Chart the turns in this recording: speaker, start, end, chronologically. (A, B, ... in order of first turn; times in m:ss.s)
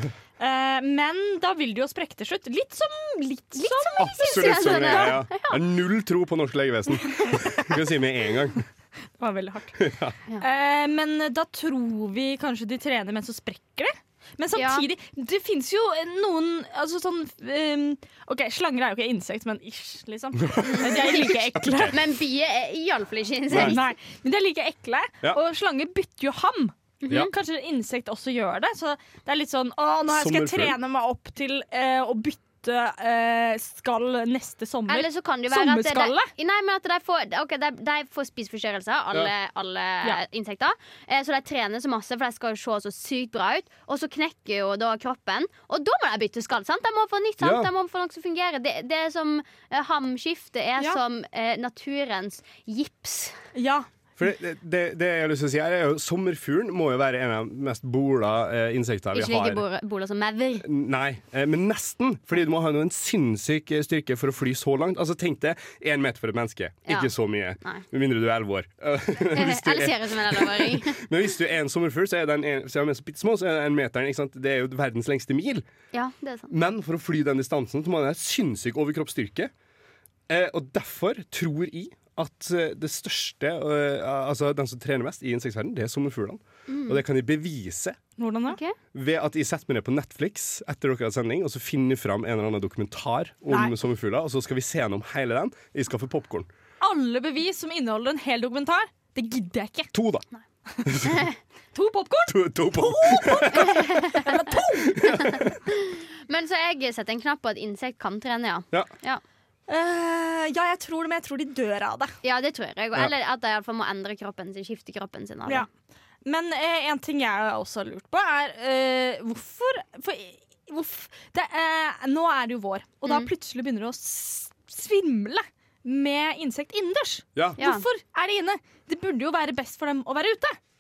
0:00.4-0:05.2 A
0:03.6-0:05.6 B
0:04.0-0:08.6 C
0:09.2-0:09.8 A
0:09.8-0:10.2 C
0:10.4-0:22.0 A
0:14.6-0:14.9 B
0:20.4-0:22.0 C
0:20.6-0:21.1 B
0:21.9-0:23.8 B
0:23.5-0:23.8 C
0:23.5-0:36.3 A
0:27.0-0:27.3 B
0:30.1-0:30.8 C
0:34.9-0:53.4 B
0:47.4-0:47.7 C
0:53.6-0:53.9 A
0:54.2-0:59.6 C
0:59.1-1:00.7 B
1:00.6-1:15.6 C
1:06.9-1:07.8 B
1:09.3-1:11.0 B
1:15.9-1:16.5 B
1:16.5-1:19.5 C
1:20.3-1:28.0 C
1:26.7-1:27.0 B
1:28.2-1:28.6 A
1:28.5-1:28.8 B
1:28.9-1:36.5 C
1:36.8-1:39.9 A
1:39.9-1:40.2 C
1:40.8-1:41.2 C
1:41.1-1:41.3 B
1:41.8-1:45.4 A
1:42.3-1:43.8 C
1:43.6-1:44.3 B
1:45.0-1:45.4 C
1:45.0-1:49.2 B
1:49.7-1:52.1 A
1:52.2-1:55.7 B
1:56.2-2:10.6 A
2:07.6-2:07.8 B